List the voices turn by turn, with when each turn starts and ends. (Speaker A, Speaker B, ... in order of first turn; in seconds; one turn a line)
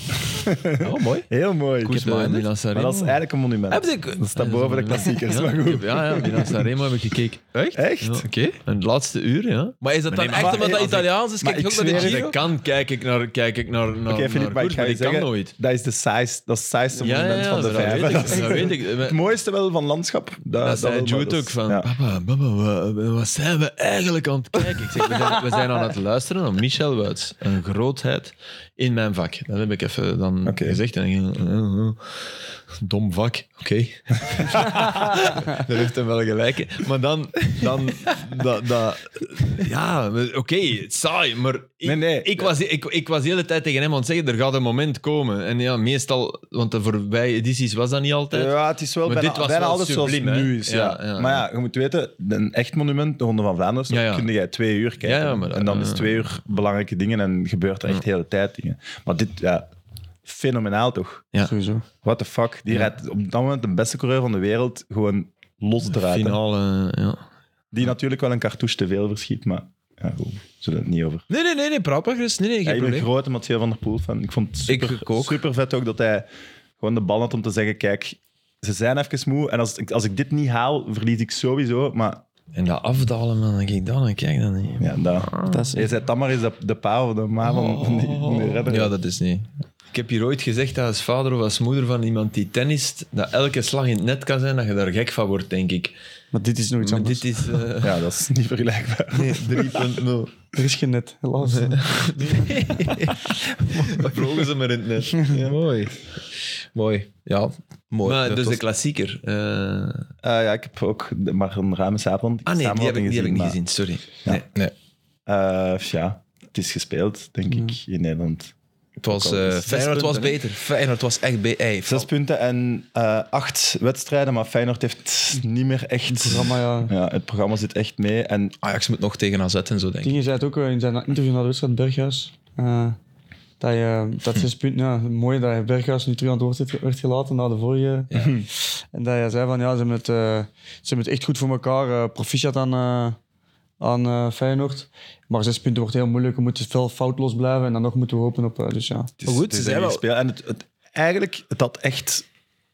Speaker A: 0.3-2.1
Speaker B: 0.8-1.3
Speaker B: 1.8-2.5
Speaker C: 1.9-3.2
Speaker A: 2.7-6.7
Speaker B: 3.7-5.1
Speaker C: 4.4-11.1
Speaker A: 7.8-8.3
Speaker B: 9.8-12.4
Speaker A: 10.3-12.3
Speaker C: 11.9-15.5
Speaker A: 14.1-21.9
Speaker C: 16.9-19.2
Speaker C: 20.6-48.5
Speaker A: 30.4-30.8
Speaker A: 41.8-42.5
Speaker A: 48.3-59.7
Speaker C: 49.0-51.5
Speaker C: 53.9-54.3
Speaker C: 55.0-56.2
Speaker A: 60.3-61.2
Speaker D: 61.4-61.9
Speaker A: 62.0-66.4
Speaker C: 65.9-67.2
Speaker A: 67.7-71.2
Speaker B: 71.3-73.1
Speaker A: 72.7-76.3
Speaker B: 74.7-75.4
Speaker A: 76.8-82.2
Speaker C: 82.5-85.8
Speaker A: 84.8-88.9
Speaker D: 85.5-85.8
Speaker C: 87.4-88.7
Speaker B: 88.7-89.5
Speaker C: 89.9-96.0
Speaker D: 96.3-97.3
Speaker C: 96.8-98.0
Speaker A: 97.8-100.0
Speaker C: 99.1-100.3
Speaker D: 100.5-102.5
Speaker C: 101.5-102.9
Speaker B: 102.3-104.5
Speaker C: 103.9-105.6
Speaker B: 105.2-106.0
Speaker B: 106.7-108.6
Speaker C: 108.0-110.1
Speaker A: 110.2-113.6
Speaker C: 112.5-114.4
Speaker A: 115.3-118.5
Speaker B: 119.0-122.1
Speaker A: 119.1-120.3
Speaker C: 119.7-120.3
Speaker A: 121.9-128.6
Speaker D: 126.1-126.9
Speaker B: 128.6-130.2
Speaker D: 130.0-133.0
Speaker D: 133.6-143.2
Speaker B: 138.1-138.4
Speaker A: 138.2-138.4
Speaker D: 143.8-149.1
Speaker A: 149.2-152.3
Speaker B: 149.3-150.0